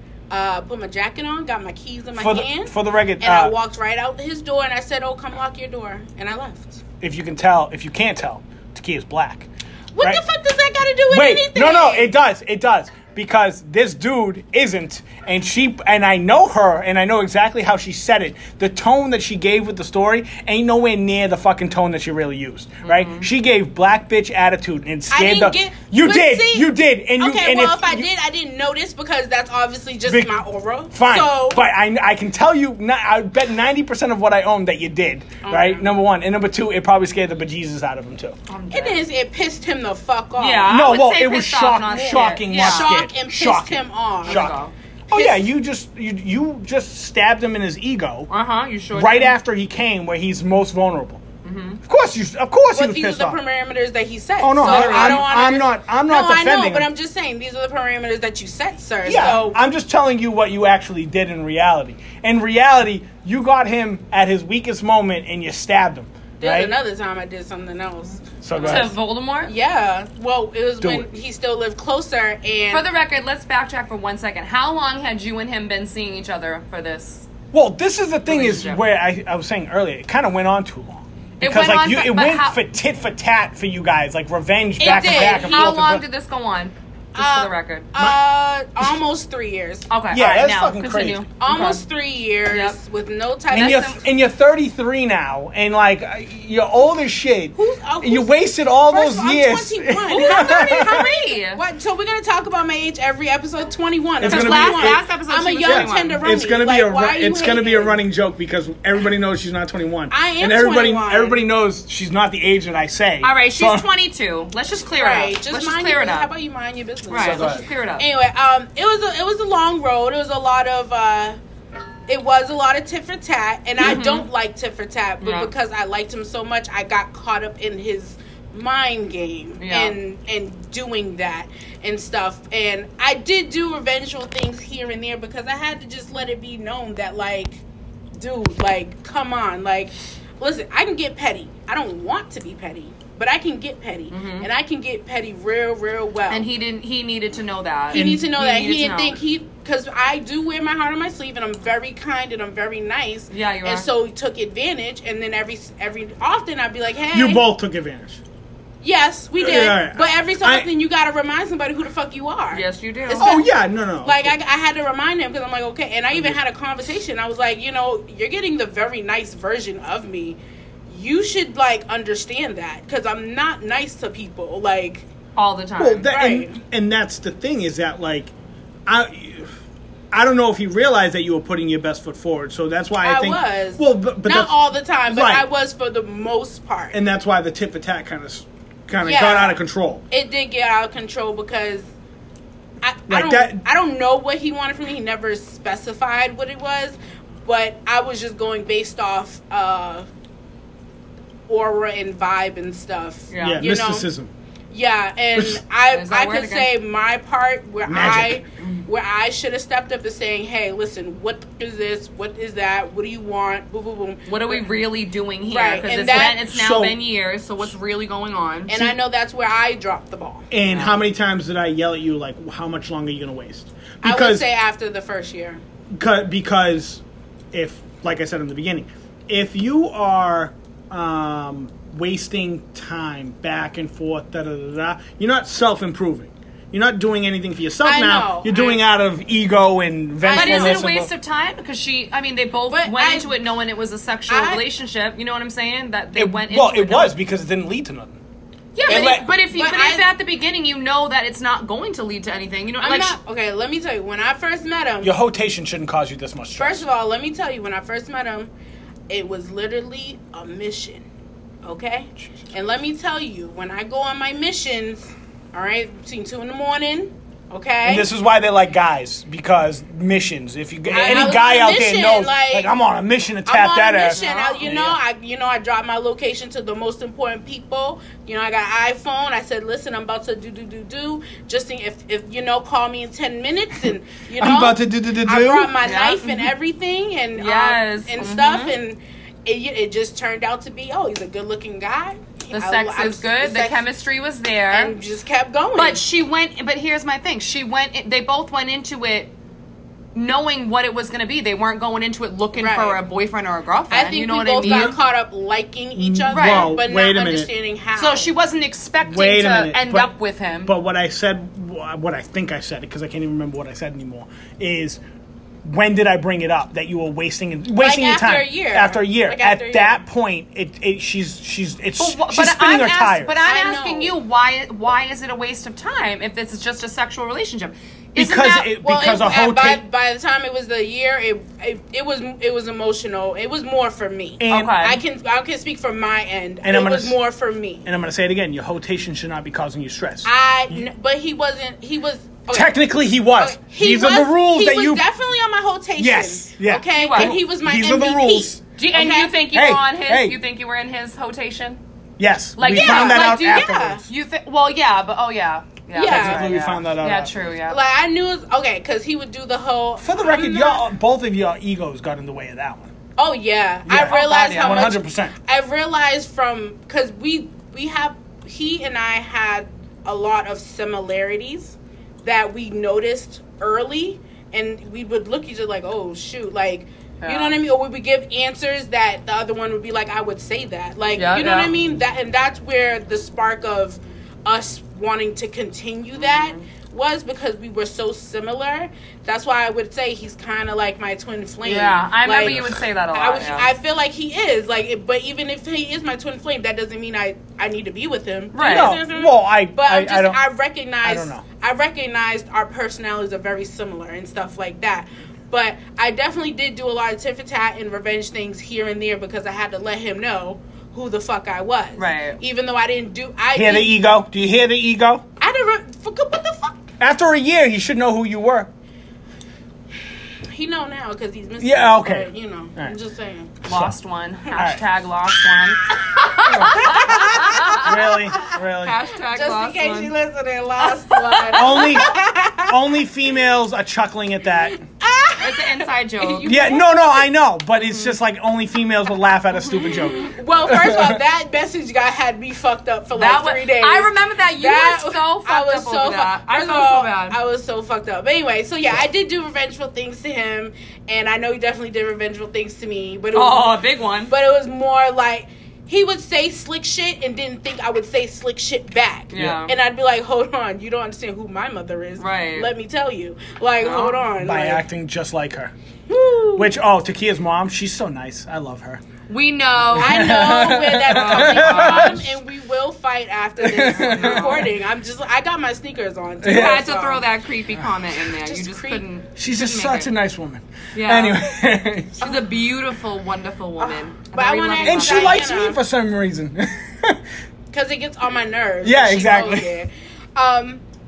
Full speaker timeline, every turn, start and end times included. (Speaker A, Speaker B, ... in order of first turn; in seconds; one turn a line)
Speaker A: 0.3-6.8
Speaker B: 2.2-3.5
Speaker B: 7.0-9.5
Speaker A: 9.9-12.1
Speaker B: 11.1-28.1
Speaker C: 22.8-23.3
Speaker A: 25.1-31.6
Speaker B: 30.1-30.4
Speaker B: 30.9-38.4
Speaker A: 35.4-36.0
Speaker C: 38.5-39.0
Speaker A: 38.7-40.8
Speaker C: 40.4-43.0
Speaker B: 40.7-44.6
Speaker A: 41.9-44.6
Speaker C: 44.3-44.7
Speaker B: 45.1-48.3
Speaker A: 45.1-45.5
Speaker C: 48.3-49.4
Speaker B: 48.9-51.2
Speaker C: 51.4-51.8
Speaker B: 51.8-53.4
Speaker A: 52.7-59.6
Speaker B: 54.4-56.9
Speaker C: 54.6-55.3
Speaker B: 59.1-66.7
Speaker A: 66.4-72.9
Speaker B: 68.4-69.0
Speaker C: 68.6-69.5
Speaker B: 70.8-71.1
Speaker C: 72.7-77.3
Speaker B: 77.5-86.0
Speaker C: 78.3-78.8
Speaker C: 81.4-82.6
Speaker A: 84.8-85.8
Speaker C: 84.8-87.9
Speaker A: 87.2-89.9
Speaker C: 89.9-91.8
Speaker B: 90.1-91.2
Speaker A: 91.4-94.0
Speaker C: 92.5-92.8
Speaker C: 93.5-94.0
Speaker B: 93.5-101.0
Speaker A: 97.6-98.3
Speaker A: 98.9-108.0
Speaker C: 100.1-101.6
Speaker B: 104.2-105.0
Speaker C: 104.2-106.2
Speaker B: 105.6-113.8
Speaker A: 110.1-111.4
Speaker C: 113.2-116.3
Speaker A: 115.0-121.4
Speaker C: 117.1-118.1
Speaker B: 117.2-117.6
Speaker A: 122.1-137.6
Speaker C: 123.8-124.3
Speaker C: 125.2-125.5
Speaker C: 129.6-130.0
Speaker A: 138.2-146.5
Speaker C: 144.1-144.5
Speaker C: 146.3-149.2
Speaker A: 147.9-157.4
Speaker B: 147.9-148.2
Speaker C: 153.3-153.9
Speaker B: 157.1-158.2
Speaker A: 158.8-175.1
Speaker B: 159.4-160.7
Speaker C: 162.5-163.3
Speaker B: 163.1-164.3
Speaker C: 175.4-176.1
Speaker B: 175.8-178.3
Speaker A: 176.1-176.6
Speaker B: 178.9-179.6
Speaker B: 180.1-185.5
Speaker A: 183.0-187.0
Speaker B: 186.9-190.0
Speaker A: 189.0-191.9
Speaker A: 192.8-200.1
Speaker B: 193.1-193.6
Speaker A: 201.5-204.1
Speaker C: 203.3-203.6
Speaker B: 203.4-204.3
Speaker A: 204.7-214.7
Speaker B: 205.4-205.6
Speaker C: 205.9-206.7
Speaker B: 207.9-208.4
Speaker C: 208.6-208.9
Speaker C: 214.3-218.9
Speaker A: 215.5-216.4
Speaker B: 216.2-217.0
Speaker A: 218.7-220.5
Speaker B: 220.5-224.5
Speaker C: 220.7-221.0
Speaker A: 224.0-225.6
Speaker B: 225.9-227.0
Speaker B: 227.5-241.1
Speaker A: 237.8-238.7
Speaker C: 238.5-238.8
Speaker A: 240.2-240.9
Speaker C: 240.3-247.2
Speaker A: 242.7-243.3
Speaker A: 244.3-244.6
Speaker B: 246.2-248.2
Speaker C: 248.8-253.2
Speaker B: 248.9-249.3
Speaker A: 248.9-250.1
Speaker A: 252.8-255.2
Speaker B: 255.0-256.8
Speaker A: 256.6-258.5
Speaker A: 259.1-261.1
Speaker A: 261.6-268.1
Speaker B: 267.9-275.0
Speaker A: 270.9-272.7
Speaker A: 273.5-293.8
Speaker C: 274.1-274.8
Speaker B: 284.4-285.7
Speaker C: 285.8-286.5
Speaker C: 287.4-288.8
Speaker C: 292.5-294.9
Speaker A: 294.7-296.0
Speaker C: 295.8-299.3
Speaker C: 300.1-304.9
Speaker A: 302.6-303.0
Speaker A: 303.9-308.3
Speaker B: 304.6-305.0
Speaker B: 306.0-307.5
Speaker C: 306.3-306.8
Speaker C: 308.0-310.8
Speaker B: 309.0-310.1
Speaker B: 310.6-315.0
Speaker B: 315.6-323.4
Speaker A: 317.8-320.0
Speaker C: 322.0-328.7
Speaker A: 323.4-324.1
Speaker B: 328.2-329.8
Speaker A: 328.8-337.9
Speaker B: 334.4-334.9
Speaker C: 334.5-335.0
Speaker B: 336.6-337.2
Speaker B: 337.9-340.3
Speaker A: 340.2-342.7
Speaker B: 342.5-345.1
Speaker A: 343.4-349.4
Speaker B: 346.0-348.6
Speaker C: 346.9-347.4
Speaker C: 348.8-351.8
Speaker B: 349.5-350.4
Speaker B: 352.2-354.1
Speaker C: 352.6-357.8
Speaker A: 352.7-354.0
Speaker A: 355.9-356.6
Speaker B: 356.0-357.3
Speaker A: 357.7-360.8
Speaker B: 360.0-362.9
Speaker A: 363.2-414.0
Speaker B: 363.9-365.4
Speaker C: 363.9-365.0
Speaker C: 377.2-377.6
Speaker C: 381.2-381.8
Speaker C: 386.2-386.6
Speaker C: 391.6-393.7
Speaker C: 398.5-399.0
Speaker B: 398.6-400.4
Speaker B: 401.0-401.4
Speaker C: 412.0-412.4
Speaker B: 413.5-415.2
Speaker A: 415.4-416.9
Speaker B: 417.0-418.7
Speaker A: 420.5-423.6
Speaker B: 421.6-422.9
Speaker C: 423.6-430.1
Speaker B: 423.7-423.9
Speaker B: 424.6-424.8
Speaker A: 426.4-428.6
Speaker B: 426.4-429.0
Speaker A: 429.3-432.8
Speaker C: 430.9-431.9
Speaker B: 431.5-434.8
Speaker A: 434.8-437.0
Speaker C: 435.4-436.9
Speaker B: 436.5-441.2
Speaker C: 437.8-438.1
Speaker C: 439.7-440.3
Speaker A: 439.9-464.9
Speaker C: 443.1-447.4
Speaker C: 453.3-454.3
Speaker C: 459.3-459.7
Speaker C: 462.2-462.7
Speaker C: 463.8-464.2
Speaker B: 464.4-465.7
Speaker A: 466.1-466.8
Speaker B: 466.6-469.0
Speaker C: 469.3-472.3
Speaker A: 469.9-477.3
Speaker B: 469.9-472.2
Speaker B: 473.6-474.5
Speaker C: 473.8-474.7
Speaker B: 476.4-476.9
Speaker C: 476.4-480.1
Speaker A: 478.3-479.0
Speaker B: 479.4-482.2
Speaker C: 480.9-481.5
Speaker C: 482.2-485.4
Speaker A: 483.8-485.8
Speaker B: 484.8-487.2
Speaker A: 487.7-490.8
Speaker B: 488.8-489.7